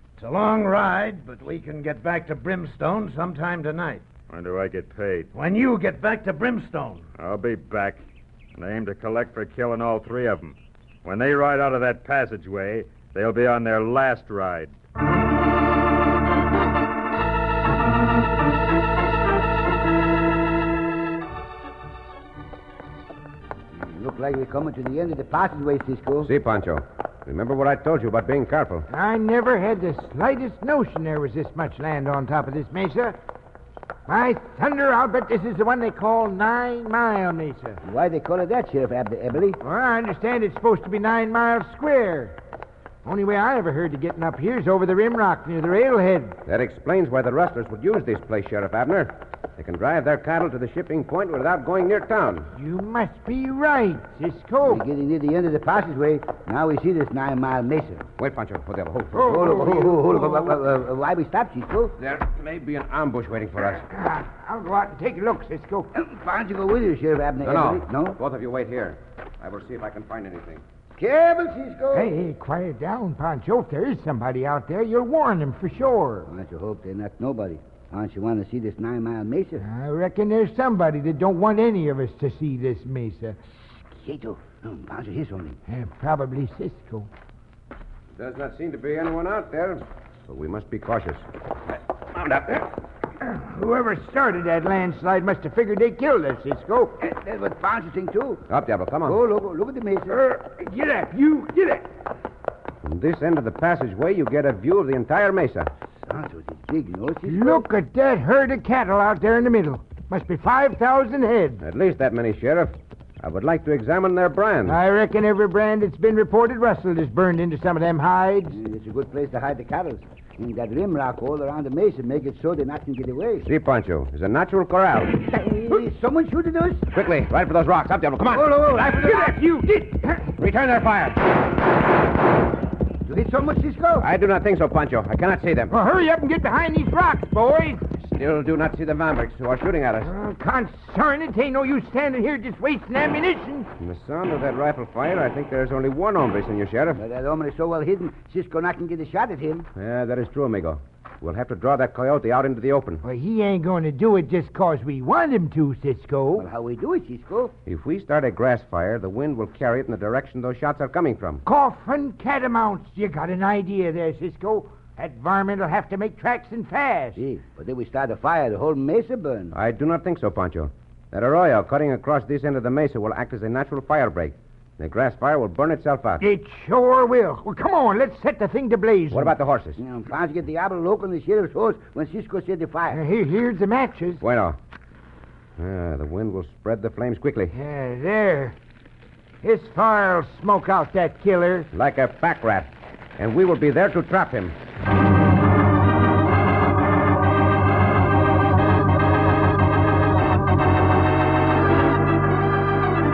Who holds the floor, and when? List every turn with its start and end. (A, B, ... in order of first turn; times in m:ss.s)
0:00.2-0:04.0 A
0:04.3-0:05.3 B
0:05.3-0:07.0 A
0:07.2-0:08.0 B
0:08.5-0:14.7 B
0:23.7-0:26.3 C
0:26.2-0:28.8 D
0:28.9-0:33.2 E
0:34.1-0:37.8 E
0:37.8-0:39.6 C
0:39.6-0:42.4 E
0:43.0-0:46.4 E
0:46.4-0:52.5 D
0:52.5-0:54.8 E
0:54.6-0:58.1 C
0:58.2-0:59.7 D
0:59.2-1:00.6 E
0:59.2-1:01.9 C
1:02.0-1:03.8 D
1:03.8-1:05.9 E
1:05.9-1:08.2 C
1:07.4-1:10.6 D
1:11.0-1:12.1 C
1:11.9-1:16.3 E
1:16.3-1:19.6 C
1:19.6-1:23.4 E
1:23.9-1:25.6 C
1:25.7-1:27.1 E
1:28.1-1:31.2 D
1:32.1-1:32.6 D
1:33.2-1:37.0 E
1:37.0-1:38.4 C
1:38.5-1:39.2 D
1:39.0-1:40.2 C
1:40.1-1:41.9 E
1:42.8-1:45.7 D
1:46.0-1:47.6 C
1:47.2-1:51.6 E
1:51.6-1:54.8 D
1:54.6-1:58.6 E
1:58.5-2:03.5 C
2:03.4-2:05.2 D
2:05.3-2:06.9 C
2:06.9-2:09.4 D
2:08.3-2:09.2 C
2:08.8-2:10.3 E
2:10.4-2:11.4 D
2:13.0-2:14.1 C
2:14.0-2:15.7 D
2:15.7-2:17.9 E
2:18.0-2:20.1 D
2:20.0-2:23.7 E
2:23.8-2:27.0 D
2:26.9-2:29.7 C
2:29.7-2:33.0 D
2:33.0-2:36.5 E
2:36.4-2:37.5 C
2:37.6-2:41.4 D
2:41.4-2:47.2 E
2:47.2-2:49.5 C
2:49.5-2:56.2 D
2:56.2-2:59.3 E
2:59.1-2:59.8 D
2:59.8-3:03.0 C
3:02.9-3:04.2 E
3:04.2-3:04.6 D
3:05.6-3:07.5 D
3:07.5-3:08.6 E
3:09.4-3:11.7 E
3:11.7-3:14.6 D